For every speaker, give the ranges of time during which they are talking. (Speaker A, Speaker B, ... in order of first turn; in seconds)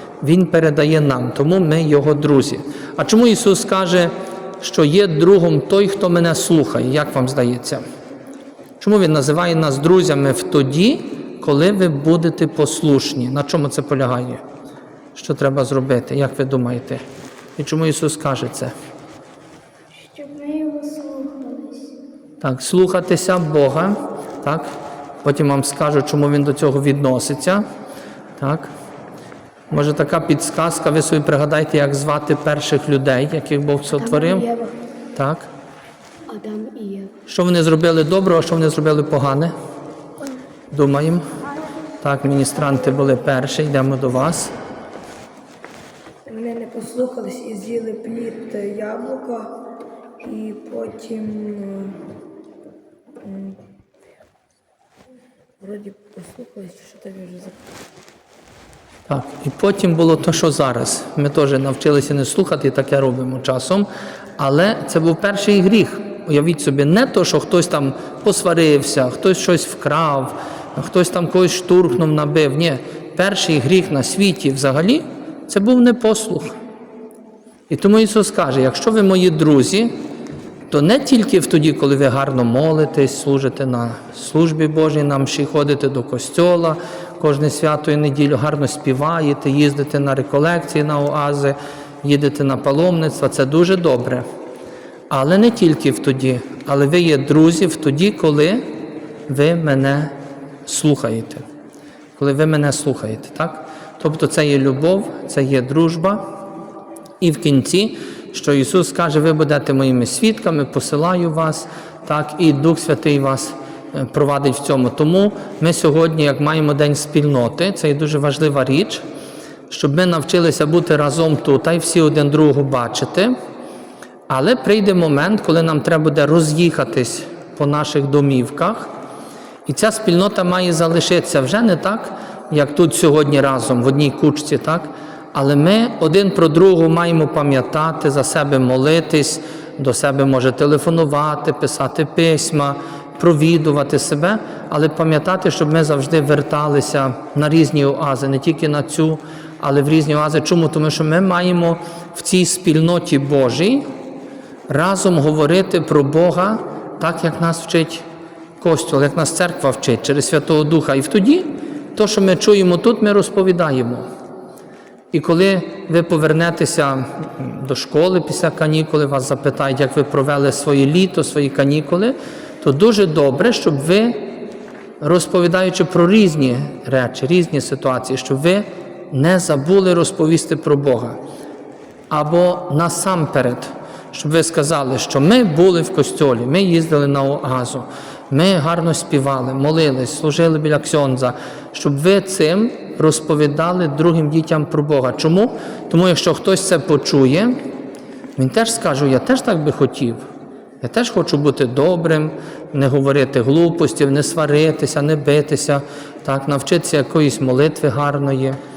Speaker A: 0.2-7.8, 8.8-14.4, 15.1-17.0, 17.6-18.7, 22.4-24.7, 25.2-27.6, 28.4-28.7, 29.7-34.5, 35.1-35.5, 37.3-39.5, 40.7-41.2, 42.0-44.5, 59.1-63.9, 64.4-76.5, 77.7-79.9, 80.7-94.2, 95.1-98.7, 99.3-100.1, 100.7-101.4, 102.2-106.3, 107.2-119.0, 119.7-123.3, 124.3-128.9, 129.7-153.8, 154.7-158.0, 158.6-164.0, 165.1-174.2, 175.0-181.2, 182.1-197.6, 198.4-200.2, 200.8-208.6
Speaker B: 20.0-21.9
Speaker C: 34.5-34.7, 36.3-37.1, 46.3-49.5, 50.2-52.0, 53.2-53.5, 55.6-57.6